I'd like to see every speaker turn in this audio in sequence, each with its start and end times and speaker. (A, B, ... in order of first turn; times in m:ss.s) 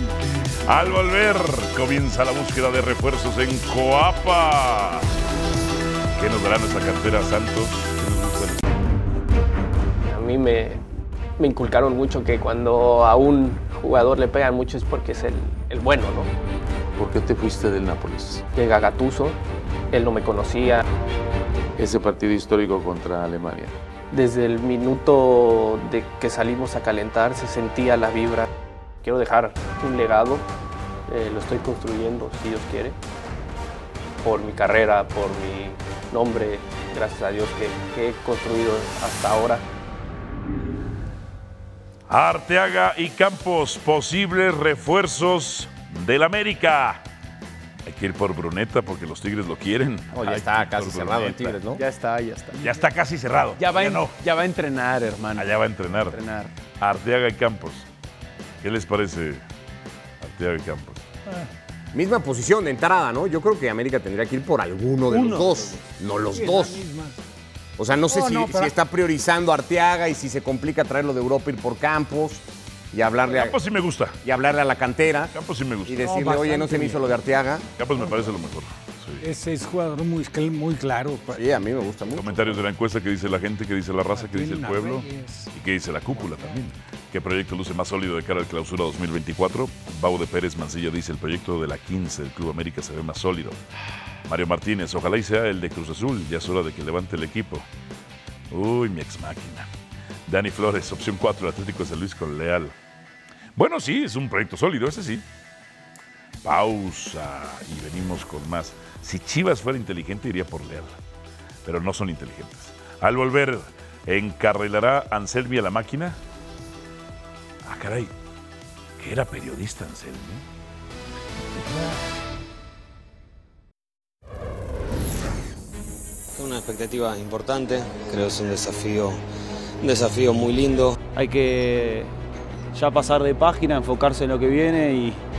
0:00.6-0:05.0 A
0:06.2-0:08.6 A
0:10.0-0:10.8 B
0:11.4-0:16.3 B
0:17.0-0:18.4 C
0:18.5-0:19.4 B
0:19.9-0:20.8 B
0:21.8-0:23.7 C
0:24.1-0:28.5 B
0:29.0-0:30.4 B
0:31.1-0:33.0 B
0:34.2-0:39.6 B
0:42.1-0:47.0 A
0:47.8-0:51.6 A
0:50.1-0:51.8 D
0:51.7-0:52.6 E
0:52.5-0:54.1 A
0:53.6-0:55.5 E
0:55.4-0:56.2 A
0:56.0-0:56.5 E
0:56.7-0:57.9 A
0:58.6-0:59.4 A
1:00.2-1:01.1 A
1:01.9-1:06.8 D
1:05.1-1:05.6 E
1:06.3-1:07.2 F
1:07.8-1:13.6 D
1:08.1-1:08.7 F
1:13.2-1:14.2 A
1:14.2-1:15.3 D
1:15.3-1:16.1 A
1:15.8-1:17.6 D
1:16.0-1:17.0 F
1:17.8-1:19.2 A
1:19.2-1:21.4 F
1:21.3-1:22.6 D
1:22.1-1:33.6 A
1:24.1-1:25.5 F
1:26.1-1:26.6 F
1:34.2-1:37.6 A
1:38.5-1:39.7 A
1:40.3-1:42.7 A
1:43.6-1:45.2 A
1:46.4-1:50.9 A
1:51.6-1:56.2 A
1:57.6-1:58.1 A
1:59.0-2:00.4 A
2:06.3-2:09.2 G
2:09.8-2:11.0 G
2:11.1-2:12.1 H
2:12.7-2:15.2 H